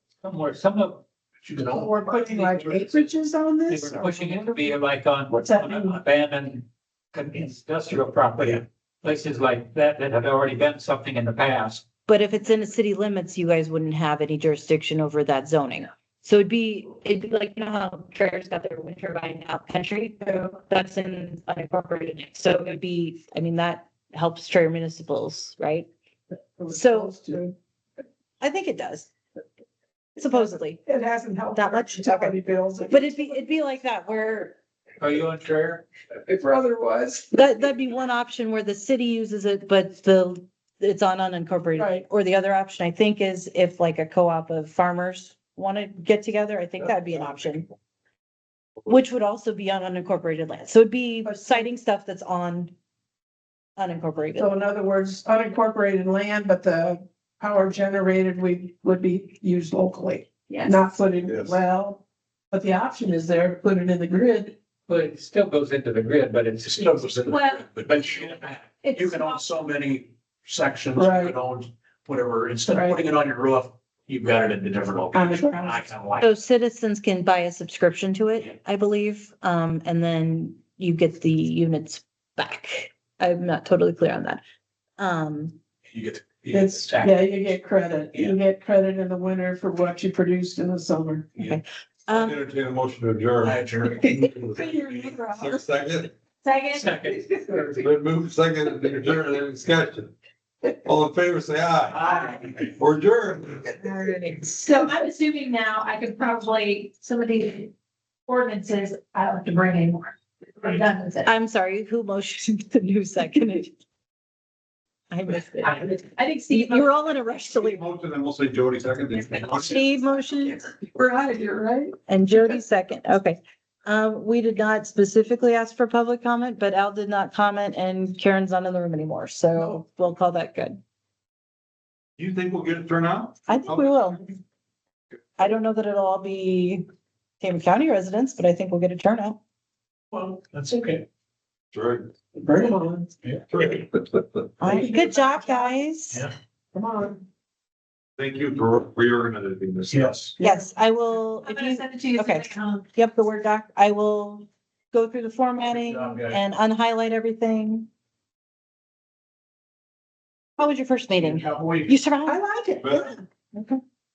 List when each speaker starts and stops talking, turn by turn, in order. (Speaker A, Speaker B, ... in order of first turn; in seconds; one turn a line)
Speaker A: 0.2-1.0
Speaker B: 1.4-2.3
Speaker C: 1.7-4.8
Speaker A: 2.5-3.0
Speaker A: 3.7-11.8
Speaker C: 5.3-6.0
Speaker D: 12.1-25.9
Speaker C: 26.6-27.5
Speaker D: 26.7-27.1
Speaker D: 28.4-29.1
Speaker D: 30.2-30.8
Speaker C: 30.9-33.3
Speaker D: 31.5-32.4
Speaker D: 32.9-34.5
Speaker A: 35.0-35.9
Speaker C: 36.1-37.3
Speaker D: 37.3-47.7
Speaker C: 41.8-42.0
Speaker D: 48.9-52.7
Speaker D: 53.8-54.5
Speaker C: 54.4-64.5
Speaker E: 60.5-60.9
Speaker F: 61.3-61.6
Speaker A: 64.9-67.1
Speaker B: 66.6-76.3
Speaker E: 67.3-69.4
Speaker C: 70.9-71.4
Speaker C: 72.7-73.0
Speaker C: 75.1-75.9
Speaker D: 76.2-84.4
Speaker D: 85.0-85.6
Speaker B: 85.9-87.5
Speaker C: 86.5-91.4
Speaker D: 91.5-92.4
Speaker F: 92.1-96.1
Speaker B: 93.4-94.1
Speaker C: 93.9-95.6
Speaker E: 96.4-97.0
Speaker A: 96.7-97.8
Speaker F: 97.7-100.1
Speaker F: 100.8-103.8
Speaker A: 102.1-102.4
Speaker D: 103.8-104.7
Speaker E: 104.6-107.7
Speaker E: 108.2-111.3
Speaker D: 111.2-113.7
Speaker D: 115.1-115.9
Speaker E: 115.6-117.1
Speaker D: 116.5-117.8
Speaker F: 117.6-119.8
Speaker D: 119.4-120.7
Speaker C: 120.8-122.0
Speaker D: 122.1-130.8
Speaker F: 132.2-133.9
Speaker D: 133.5-134.2
Speaker D: 135.4-136.8
Speaker D: 137.4-139.4
Speaker B: 140.1-141.0
Speaker F: 141.7-142.1
Speaker C: 142.3-143.1
Speaker F: 143.5-144.5
Speaker D: 144.6-146.2
Speaker C: 144.6-145.8
Speaker C: 146.7-147.2
Speaker F: 148.2-150.3
Speaker B: 149.9-150.3
Speaker D: 150.4-157.9
Speaker E: 151.4-152.9
Speaker B: 155.7-156.4
Speaker D: 160.6-162.4
Speaker B: 161.1-162.0
Speaker C: 162.2-163.2
Speaker F: 162.8-163.1
Speaker D: 163.5-163.8